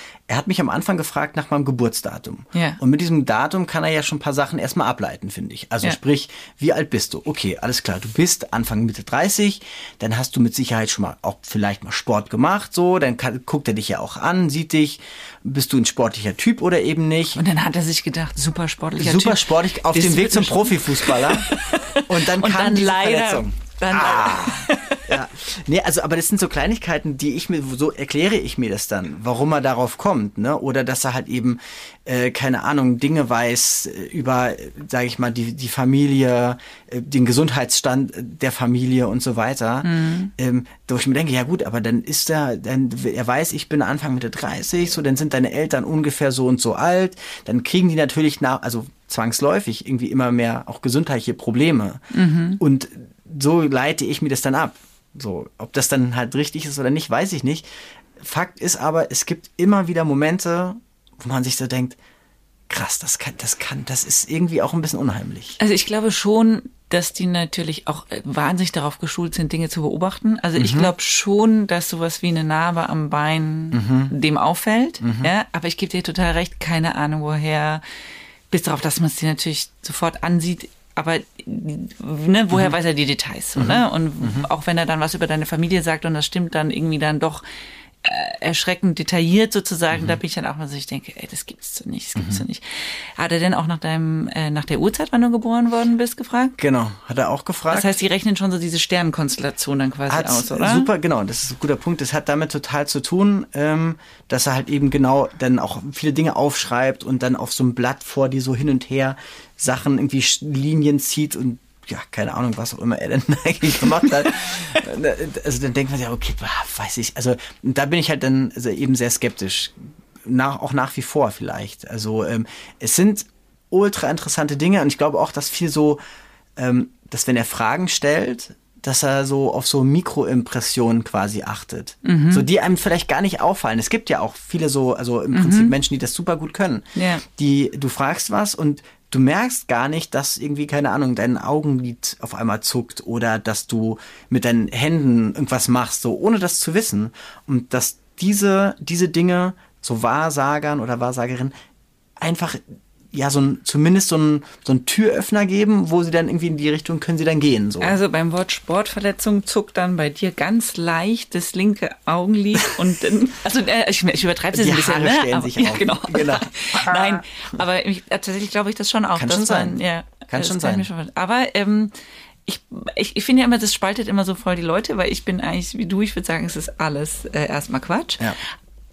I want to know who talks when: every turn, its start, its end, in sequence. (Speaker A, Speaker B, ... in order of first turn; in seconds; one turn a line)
Speaker A: 0.3-17.4
Speaker B: 2.5-2.8
Speaker B: 17.4-25.2
Speaker A: 19.0-52.0
Speaker B: 39.8-40.3
Speaker B: 52.1-52.6
Speaker A: 52.6-57.7
Speaker A: 58.2-62.0
Speaker A: 62.7-65.6
Speaker B: 65.6-77.8
Speaker A: 70.6-70.9
Speaker A: 73.7-74.2
Speaker A: 75.0-75.3
Speaker B: 78.5-87.4
Speaker A: 83.6-84.5
Speaker B: 88.0-96.6
Speaker A: 89.9-90.2
Speaker A: 92.2-92.4
Speaker A: 96.6-98.0
Speaker B: 97.7-100.9
Speaker A: 100.1-126.0
Speaker A: 126.6-151.5
Speaker B: 132.0-132.5
Speaker B: 135.3-135.7
Speaker B: 136.9-137.2
Speaker A: 152.2-152.6
Speaker A: 153.1-158.0
Speaker B: 157.8-171.9
Speaker A: 164.5-167.2
Speaker A: 169.2-170.9
Speaker B: 172.5-178.3